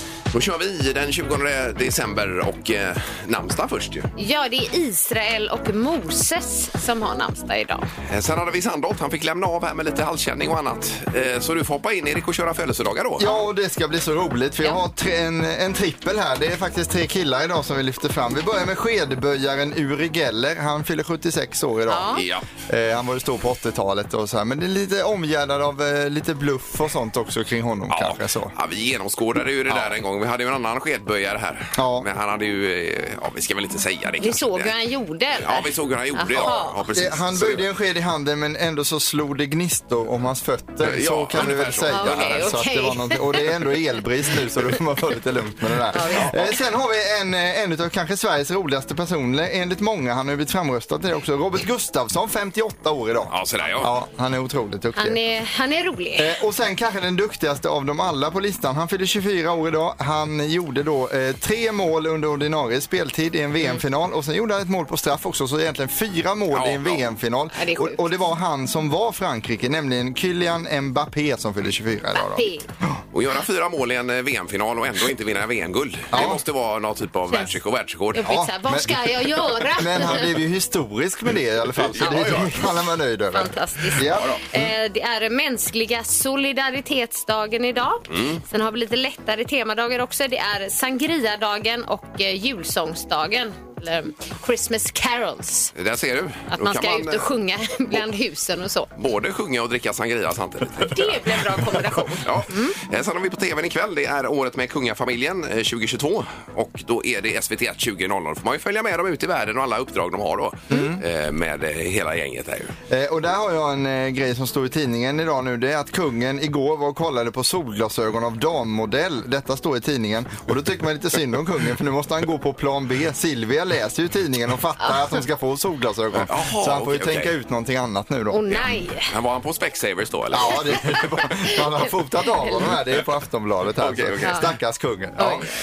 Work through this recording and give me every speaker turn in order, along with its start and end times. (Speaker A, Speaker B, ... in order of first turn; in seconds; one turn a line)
Speaker A: 0.3-4.1
Speaker B: 4.2-7.9
Speaker A: 8.1-13.2
Speaker C: 13.2-28.5
Speaker B: 21.9-22.2
Speaker A: 22.1-22.4
Speaker A: 27.9-34.7
Speaker C: 31.8-32.1
Speaker B: 34.2-36.8
Speaker A: 35.4-37.6
Speaker C: 36.9-55.2
Speaker A: 40.8-42.5
Speaker B: 41.9-43.4
Speaker B: 45.9-46.5
Speaker A: 53.3-53.9
Speaker B: 55.0-56.4
Speaker C: 56.2-73.0
Speaker A: 66.5-67.0
Speaker B: 67.5-68.0
Speaker B: 72.2-72.7
Speaker A: 73.1-78.3
Speaker C: 76.1-76.4
Speaker B: 78.1-80.3
Speaker C: 78.2-84.7
Speaker A: 81.8-82.8
Speaker B: 83.3-95.7
Speaker A: 84.0-84.4
Speaker A: 88.1-88.4
Speaker A: 95.8-97.3
Speaker B: 96.5-98.9
Speaker A: 99.0-101.5
Speaker B: 100.9-102.8
Speaker A: 102.2-112.8
Speaker C: 110.7-111.0
Speaker C: 112.9-128.6
Speaker A: 126.2-127.3
Speaker B: 128.3-129.1
Speaker A: 128.5-131.0
Speaker C: 130.3-135.5
Speaker B: 132.4-132.7
Speaker A: 133.8-134.5
Speaker B: 135.2-135.4